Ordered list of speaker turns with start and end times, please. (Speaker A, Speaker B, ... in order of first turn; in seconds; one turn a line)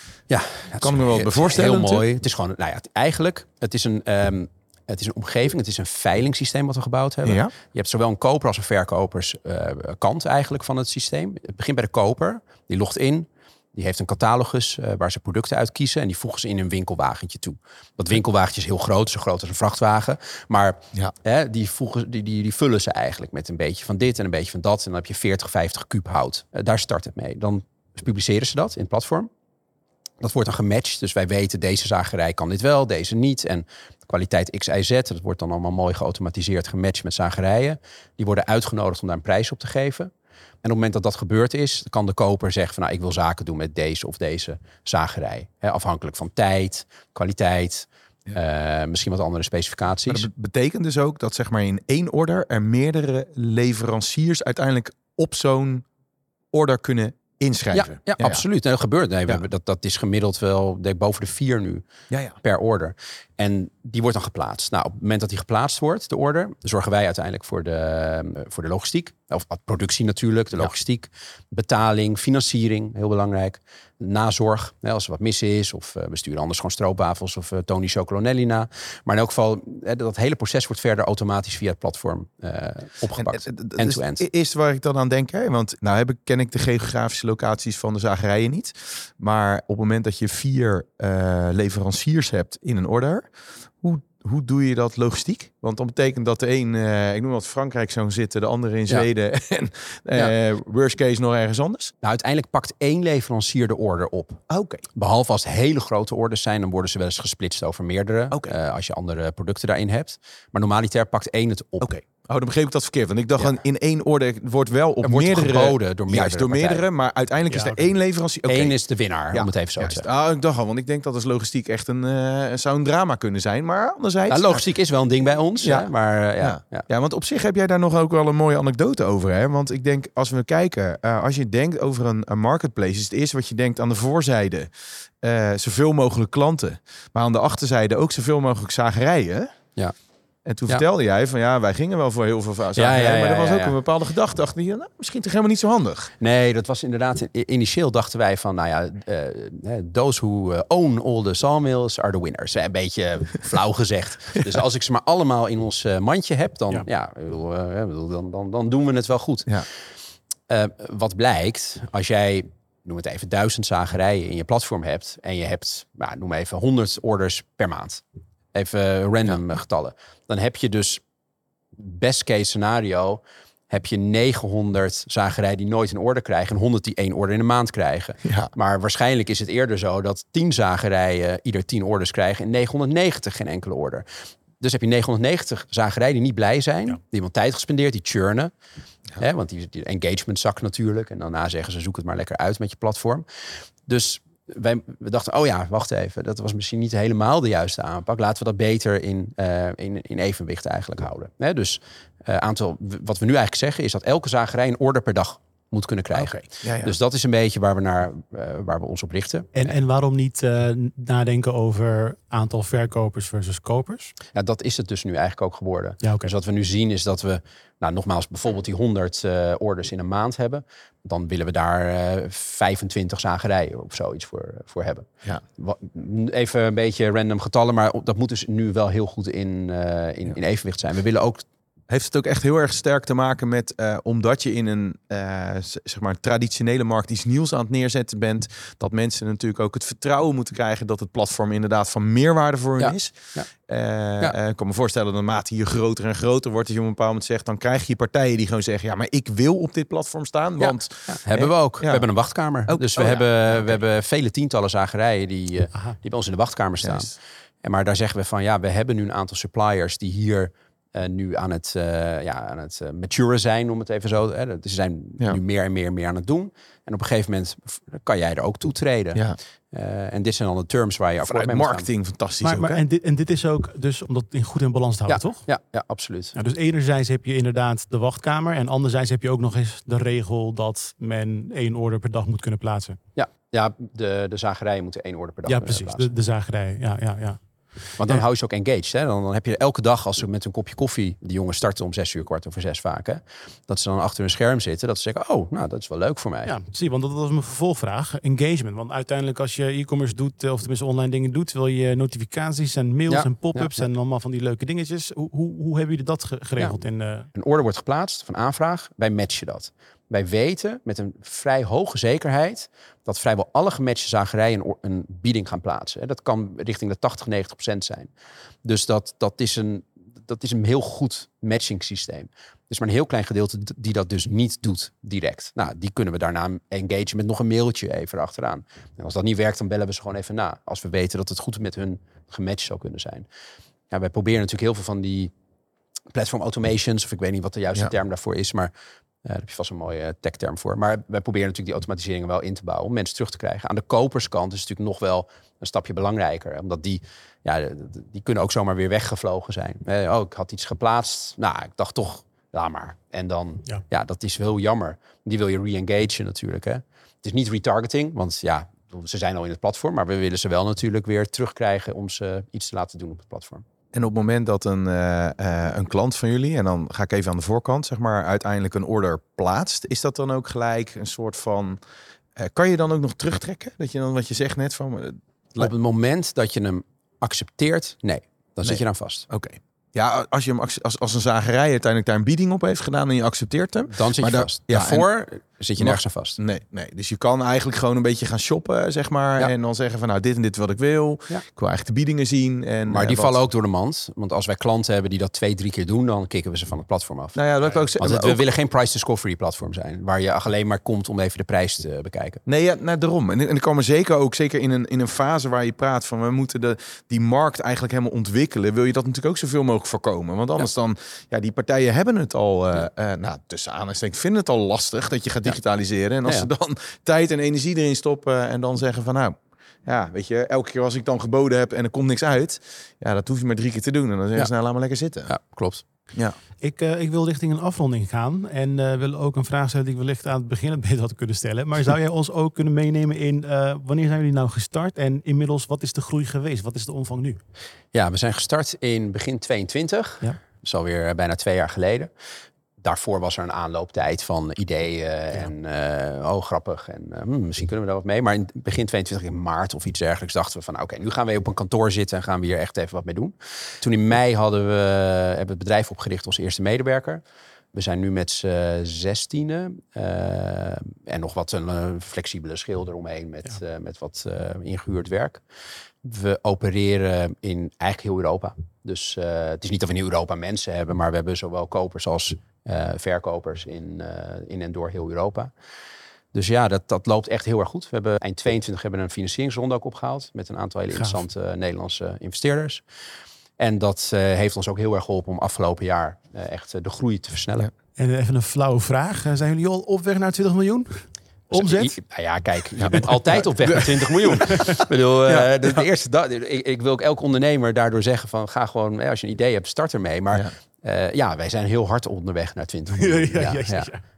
Speaker A: 0.3-29.3
Speaker B: 0.8-2.0
Speaker B: 7.3-7.5
Speaker A: 30.2-40.1
Speaker A: 40.6-50.3
Speaker B: 50.1-55.9
Speaker B: 56.5-58.5
Speaker A: 57.7-61.9
Speaker B: 62.1-62.4
Speaker A: 62.4-84.2
Speaker B: 83.2-93.3
Speaker B: 93.8-101.9
Speaker A: 102.0-104.4
Speaker B: 104.5-104.8
Speaker A: 104.9-112.0
Speaker B: 111.8-118.8
Speaker A: 115.0-116.8
Speaker C: 117.5-117.9
Speaker A: 118.5-120.1
Speaker B: 119.3-124.6
Speaker A: 124.3-126.9
Speaker B: 125.6-134.7
Speaker B: 135.2-139.5
Speaker B: 140.5-146.1
Speaker A: 142.8-143.8
Speaker A: 146.2-159.6
Speaker A: 160.5-168.0
Speaker A: 168.5-171.0
Speaker A: 171.8-184.1
Speaker B: 178.2-178.5
Speaker A: 184.6-188.5
Speaker A: 189.2-193.3
Speaker A: 193.9-209.8
Speaker B: 206.2-206.9
Speaker C: 209.6-214.1
Speaker A: 214.3-231.5
Speaker C: 216.0-216.3
Speaker B: 231.9-252.1
Speaker A: 242.8-243.5
Speaker A: 250.6-271.9
Speaker B: 252.7-253.8
Speaker B: 256.8-257.1
Speaker B: 271.2-272.8
Speaker C: 272.4-275.5
Speaker A: 275.1-276.4
Speaker C: 276.4-283.0
Speaker A: 283.2-286.1
Speaker C: 285.5-287.4
Speaker C: 287.9-288.2
Speaker A: 288.0-296.5
Speaker C: 296.5-307.3
Speaker A: 303.1-303.8
Speaker A: 307.3-318.1
Speaker A: 318.6-333.3
Speaker A: 333.9-335.3
Speaker A: 336.1-338.7
Speaker A: 339.2-363.6
Speaker B: 363.9-371.8
Speaker B: 372.4-375.7
Speaker A: 375.6-379.3
Speaker B: 378.6-385.1
Speaker A: 383.9-386.4
Speaker B: 385.8-393.4
Speaker A: 392.9-397.4
Speaker B: 397.4-398.4
Speaker A: 397.9-402.4
Speaker B: 402.5-425.3
Speaker A: 425.3-425.8
Speaker C: 426.6-437.4
Speaker A: 437.9-442.1
Speaker A: 442.8-457.2
Speaker A: 457.7-465.4
Speaker A: 466.0-475.5
Speaker A: 476.3-482.8
Speaker C: 480.9-481.2
Speaker A: 483.6-487.7
Speaker C: 488.0-491.9
Speaker A: 491.5-503.9
Speaker B: 492.8-494.1
Speaker B: 495.3-495.8
Speaker C: 502.9-504.0